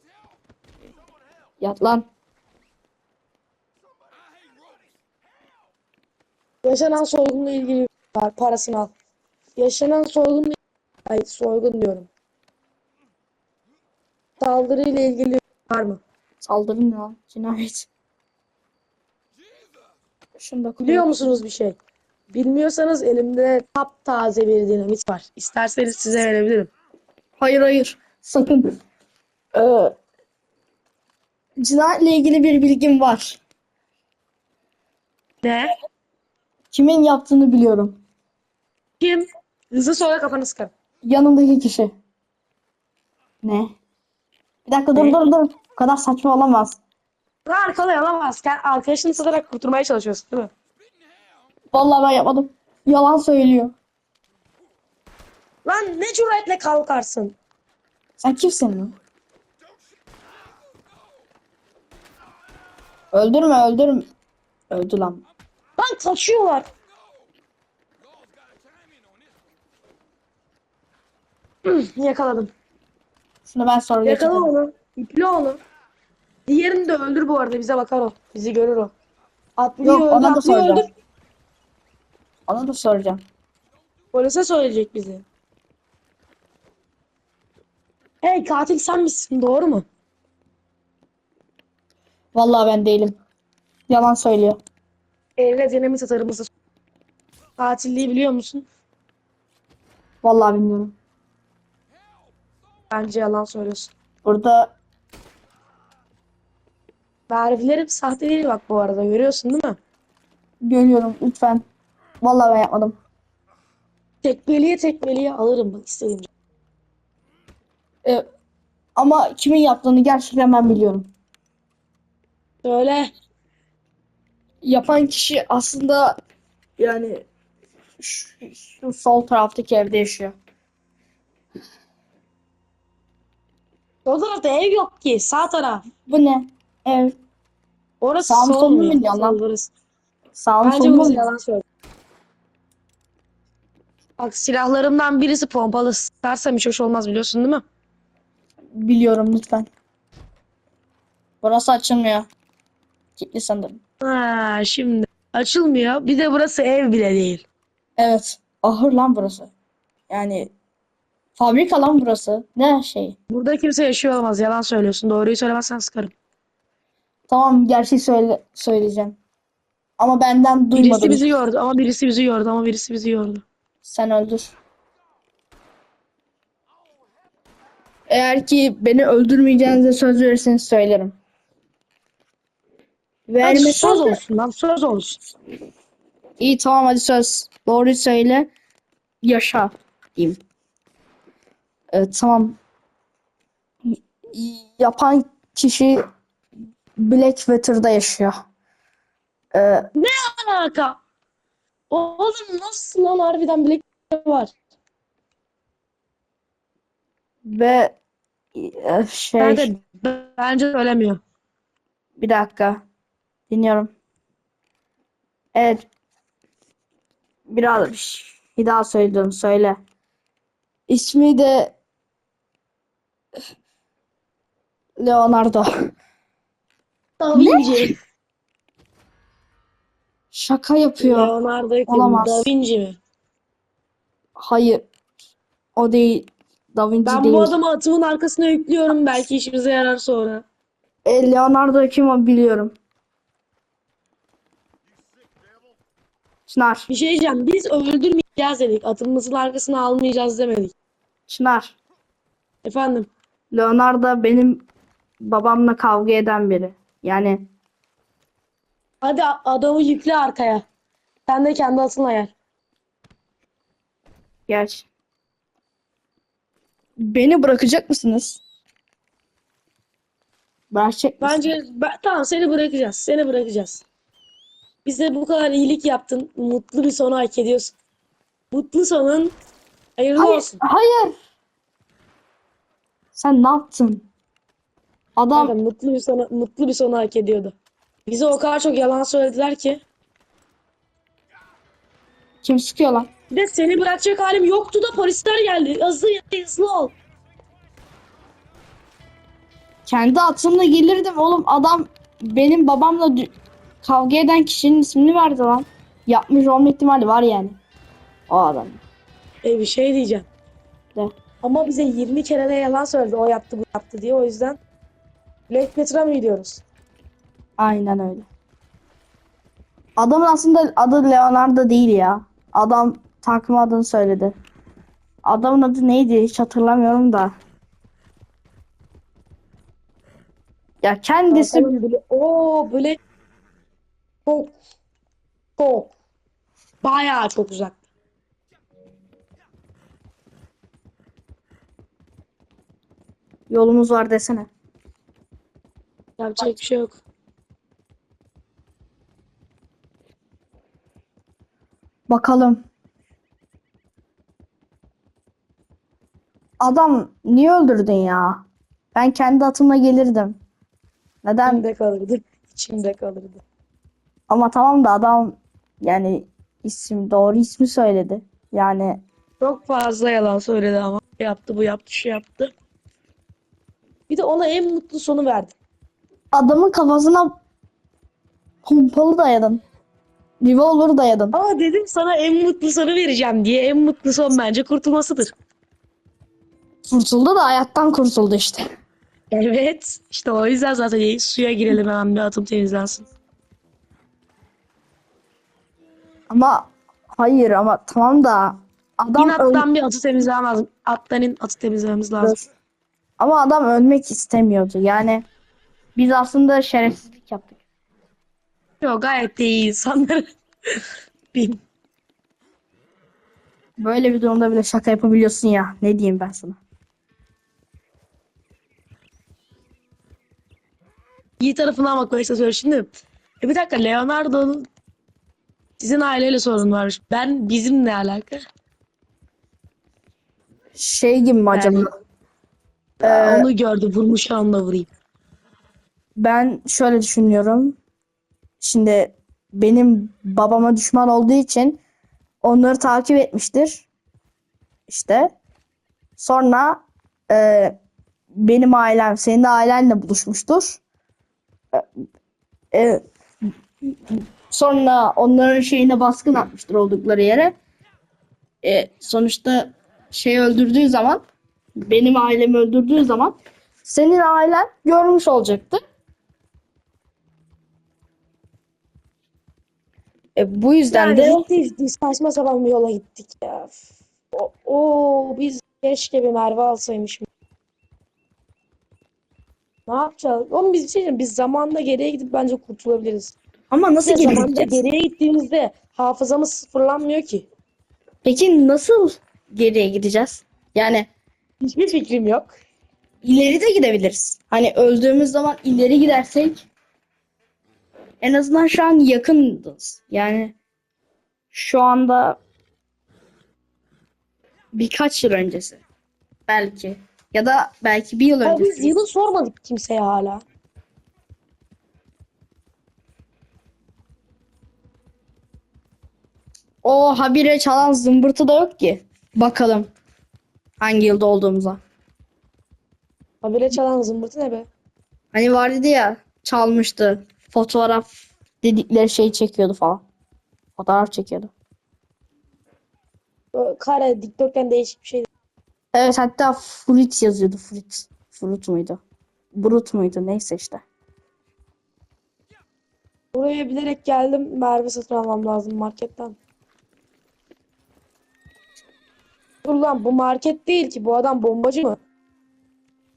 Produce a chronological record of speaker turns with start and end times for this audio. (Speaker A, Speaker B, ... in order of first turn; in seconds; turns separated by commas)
Speaker A: 1.6-2.1, Speaker B: 6.6-8.9, Speaker B: 9.6-12.1, Speaker B: 14.4-16.0, Speaker A: 16.4-17.9, Speaker A: 20.4-21.1, Speaker B: 20.8-21.8, Speaker B: 22.3-26.7, Speaker A: 27.4-28.8, Speaker A: 29.5-29.9, Speaker A: 31.6-33.4, Speaker B: 35.4-35.7, Speaker A: 36.7-38.0, Speaker B: 39.0-40.7, Speaker A: 41.0-41.9, Speaker A: 43.4-43.8, Speaker A: 44.6-46.8, Speaker B: 47.5-50.5, Speaker A: 51.7-53.7, Speaker B: 55.6-57.4, Speaker A: 58.2-58.9, Speaker A: 63.1-64.1, Speaker A: 64.7-65.2, Speaker B: 65.8-66.7, Speaker B: 71.6-72.5, Speaker A: 73.5-74.5, Speaker B: 74.0-75.6, Speaker B: 76.5-78.9, Speaker B: 79.6-80.9, Speaker A: 79.8-80.8, Speaker A: 82.5-83.2, Speaker B: 84.1-85.2, Speaker B: 88.2-89.8, Speaker A: 92.3-93.1, Speaker A: 93.9-94.6, Speaker B: 95.4-96.5, Speaker B: 97.6-98.7, Speaker A: 100.2-101.0, Speaker B: 102.9-103.9, Speaker A: 104.2-104.7, Speaker B: 107.3-109.8, Speaker A: 110.6-111.6, Speaker A: 112.2-113.0, Speaker B: 114.2-116.3, Speaker A: 119.0-121.1, Speaker B: 122.6-123.1, Speaker A: 124.6-126.2, Speaker A: 126.8-127.2, Speaker A: 128.0-130.3, Speaker B: 134.1-135.8, Speaker A: 136.0-137.2, Speaker B: 138.0-139.7, Speaker A: 138.3-139.4, Speaker A: 140.3-141.2, Speaker B: 140.6-141.6, Speaker B: 144.2-147.6, Speaker A: 148.7-149.7, Speaker A: 151.4-152.3, Speaker A: 153.2-153.8, Speaker B: 154.0-157.4, Speaker A: 158.0-159.5, Speaker A: 160.1-160.5, Speaker A: 161.3-163.2, Speaker B: 163.3-166.1, Speaker A: 167.3-169.2, Speaker A: 170.0-171.2, Speaker B: 170.7-173.4, Speaker A: 173.8-174.5, Speaker A: 178.1-181.2, Speaker A: 183.3-184.2, Speaker B: 183.4-185.2, Speaker A: 186.4-188.5, Speaker A: 189.2-190.4, Speaker A: 191.9-192.6, Speaker A: 193.8-196.0, Speaker A: 196.9-198.3, Speaker A: 199.5-199.9, Speaker B: 199.9-201.0, Speaker B: 201.9-204.5, Speaker A: 207.4-207.9, Speaker A: 208.5-209.7, Speaker B: 209.4-211.2, Speaker A: 212.2-212.8, Speaker A: 213.5-213.9, Speaker A: 215.5-215.8, Speaker A: 217.5-219.8, Speaker A: 220.9-221.8, Speaker A: 225.0-225.7, Speaker B: 227.2-227.9, Speaker A: 227.3-227.9, Speaker A: 230.3-231.3, Speaker B: 231.0-233.0, Speaker A: 231.9-232.5, Speaker A: 234.4-234.8, Speaker A: 235.8-237.5, Speaker B: 237.0-240.4, Speaker A: 241.0-242.8, Speaker A: 246.5-246.9, Speaker B: 246.9-250.7, Speaker A: 251.3-251.8, Speaker B: 252.6-253.1, Speaker A: 253.5-254.7, Speaker A: 255.2-257.5, Speaker B: 259.0-260.6, Speaker B: 261.3-262.3, Speaker A: 264.5-264.9, Speaker A: 267.0-268.4, Speaker A: 270.7-271.4, Speaker B: 271.2-273.8, Speaker B: 274.8-277.8, Speaker B: 278.5-279.4, Speaker B: 280.0-280.6, Speaker A: 280.1-281.1, Speaker A: 283.1-284.1, Speaker A: 285.2-285.5, Speaker B: 285.3-287.5, Speaker B: 288.1-289.8, Speaker A: 292.4-293.1, Speaker B: 293.3-296.9, Speaker A: 299.9-303.3, Speaker A: 303.8-307.6, Speaker A: 308.3-308.8, Speaker B: 309.4-310.2, Speaker B: 311.4-314.6, Speaker B: 315.5-316.6, Speaker A: 317.6-318.3, Speaker A: 320.0-324.3, Speaker A: 325.2-327.3, Speaker A: 330.8-331.7, Speaker B: 331.3-333.0, Speaker B: 334.2-334.6, Speaker B: 335.6-335.9, Speaker B: 336.8-337.8, Speaker A: 343.5-344.5, Speaker B: 346.2-347.0, Speaker A: 352.1-352.6, Speaker A: 356.6-360.4, Speaker A: 361.2-361.6, Speaker B: 361.4-363.4, Speaker A: 364.3-369.0, Speaker B: 369.4-372.5, Speaker B: 374.1-375.5, Speaker A: 376.3-377.3, Speaker A: 378.6-379.6, Speaker A: 380.4-381.3, Speaker B: 381.3-385.3, Speaker A: 386.8-388.6, Speaker B: 389.3-393.1, Speaker A: 396.3-399.7, Speaker B: 399.2-402.4, Speaker A: 403.2-405.2, Speaker A: 405.9-407.6, Speaker B: 408.8-410.8, Speaker B: 411.3-411.6, Speaker A: 413.8-416.6, Speaker B: 421.4-424.7, Speaker B: 425.8-428.4, Speaker A: 430.7-431.9, Speaker B: 431.5-431.9, Speaker A: 433.0-433.5, Speaker B: 433.0-434.9, Speaker A: 436.2-437.8, Speaker A: 438.6-441.8, Speaker A: 442.4-443.9, Speaker A: 444.9-445.3, Speaker A: 446.2-447.8, Speaker A: 448.3-450.8, Speaker A: 451.7-452.0, Speaker A: 452.7-453.0, Speaker A: 453.8-457.5, Speaker A: 458.6-461.2, Speaker A: 461.8-465.8, Speaker A: 470.3-471.4, Speaker B: 470.9-473.8, Speaker B: 474.3-477.2, Speaker B: 479.9-483.4, Speaker A: 483.7-484.8, Speaker B: 484.0-487.4, Speaker A: 488.2-491.1, Speaker B: 491.6-492.5, Speaker A: 493.2-496.7, Speaker A: 498.2-500.5, Speaker A: 501.5-502.4, Speaker A: 504.7-505.8, Speaker A: 506.5-508.9, Speaker B: 508.4-510.4, Speaker A: 516.8-519.9, Speaker A: 520.8-521.8, Speaker B: 523.4-524.7, Speaker A: 525.3-528.1, Speaker A: 528.6-530.0, Speaker A: 530.8-531.5, Speaker B: 533.5-535.3, Speaker A: 535.9-539.0, Speaker A: 539.5-540.8, Speaker B: 543.3-546.4, Speaker B: 549.6-552.0